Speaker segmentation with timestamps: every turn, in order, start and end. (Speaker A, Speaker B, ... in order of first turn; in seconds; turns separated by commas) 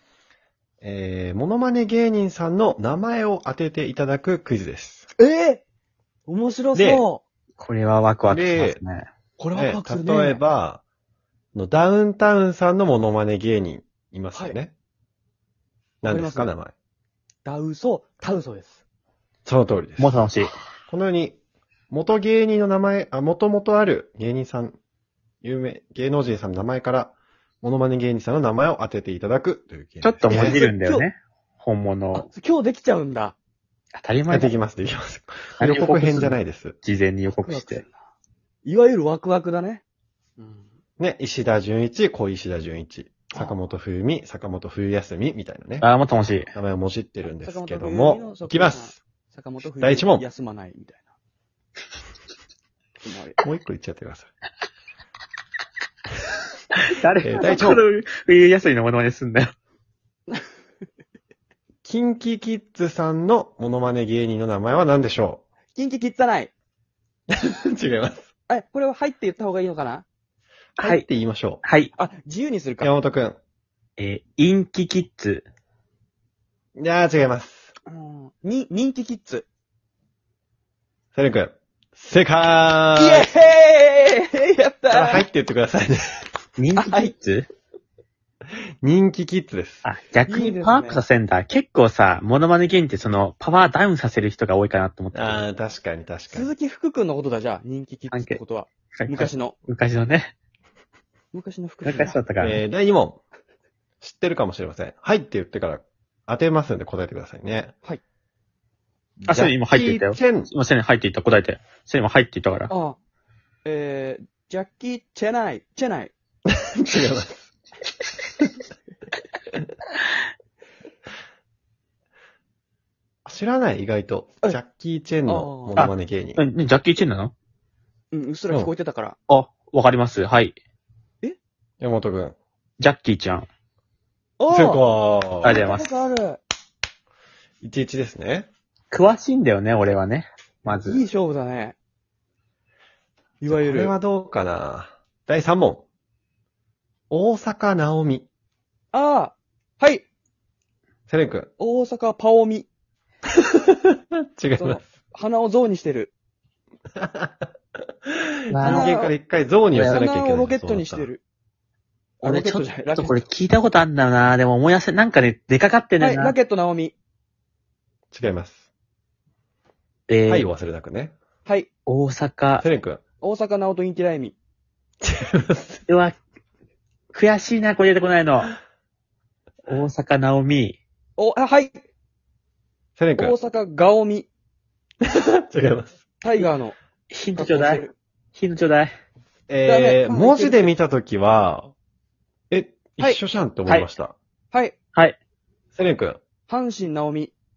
Speaker A: 0.8-5.1, Speaker B: 5.2-5.6, Speaker B: 6.3-7.2, Speaker A: 6.7-7.1, Speaker C: 7.6-9.1, Speaker A: 8.3-8.8, Speaker B: 9.4-10.4, Speaker A: 9.6-10.8, Speaker A: 11.6-14.7, Speaker A: 16.0-16.7, Speaker B: 16.1-16.5, Speaker B: 17.4-18.8, Speaker A: 19.4-20.3, Speaker C: 20.0-20.5, Speaker A: 20.9-21.4, Speaker A: 21.9-24.8, Speaker A: 25.4-30.6, Speaker C: 30.0-32.3, Speaker B: 30.3-31.1, Speaker B: 32.1-33.4, Speaker C: 34.0-34.6, Speaker A: 34.3-36.8, Speaker C: 35.6-37.8, Speaker B: 37.3-37.9, Speaker B: 38.6-39.8, Speaker A: 41.0-45.9, Speaker C: 45.8-46.5, Speaker A: 46.5-49.0, Speaker B: 47.4-51.1, Speaker A: 49.8-50.3, Speaker B: 53.0-53.4, Speaker A: 53.4-54.3, Speaker C: 56.8-59.5, Speaker A: 57.2-57.9, Speaker A: 61.9-65.4, Speaker B: 65.8-66.5, Speaker A: 67.3-68.3, Speaker B: 68.5-70.0, Speaker C: 70.8-71.0, Speaker A: 70.8-71.6, Speaker C: 71.6-71.9, Speaker B: 72.0-72.9, Speaker A: 72.8-73.4, Speaker C: 74.0-75.5, Speaker A: 76.8-77.7, Speaker B: 77.9-79.5, Speaker A: 81.2-83.3, Speaker B: 83.0-85.3, Speaker A: 84.9-86.2, Speaker C: 86.6-87.5, Speaker B: 86.8-87.1, Speaker A: 88.8-89.8, Speaker C: 89.8-95.5, Speaker B: 90.3-91.0, Speaker A: 95.1-96.5, Speaker B: 96.3-99.6, Speaker C: 98.1-98.4, Speaker C: 99.0-100.3, Speaker B: 101.3-102.2, Speaker C: 101.8-102.6, Speaker A: 102.4-103.2, Speaker A: 104.0-107.7, Speaker A: 109.2-110.5, Speaker C: 109.3-112.7, Speaker B: 112.7-113.0, Speaker B: 113.7-116.1, Speaker A: 116.5-117.5, Speaker A: 123.2-126.4, Speaker B: 125.3-125.9, Speaker C: 125.8-127.3, Speaker B: 128.1-129.2, Speaker C: 129.3-130.6, Speaker A: 131.8-132.4, Speaker C: 132.8-133.5, Speaker B: 134.4-134.8, Speaker A: 134.5-135.6, Speaker C: 135.4-136.1, Speaker B: 135.4-136.4, Speaker A: 137.6-138.5, Speaker C: 138.9-141.0, Speaker B: 140.7-141.8, Speaker B: 143.4-143.9, Speaker A: 143.5-145.8, Speaker A: 147.1-148.3, Speaker B: 148.9-150.1, Speaker A: 151.1-151.5, Speaker B: 151.6-152.7, Speaker A: 153.5-153.8, Speaker A: 154.4-154.8, Speaker B: 154.6-156.1, Speaker A: 157.0-157.5, Speaker A: 158.1-161.1, Speaker C: 158.5-158.9, Speaker B: 158.6-159.1, Speaker C: 159.7-160.0, Speaker B: 159.9-161.2, Speaker B: 162.2-163.2, Speaker C: 162.2-166.3, Speaker B: 166.0-166.9, Speaker A: 168.1-168.7, Speaker C: 170.1-170.5, Speaker A: 170.3-171.1, Speaker C: 171.9-172.7, Speaker A: 172.6-173.0, Speaker B: 173.2-174.4, Speaker A: 175.0-175.8, Speaker C: 175.9-176.2, Speaker C: 177.1-178.6, Speaker C: 179.7-180.8, Speaker B: 181.2-181.8, Speaker A: 183.0-183.4, Speaker B: 183.2-184.3, Speaker A: 185.0-186.0, Speaker B: 186.2-186.8, Speaker C: 187.1-187.8, Speaker B: 187.3-187.9, Speaker C: 188.3-188.9, Speaker A: 189.5-191.7, Speaker B: 189.6-190.7, Speaker A: 192.5-194.2, Speaker A: 195.8-196.2, Speaker B: 196.5-197.3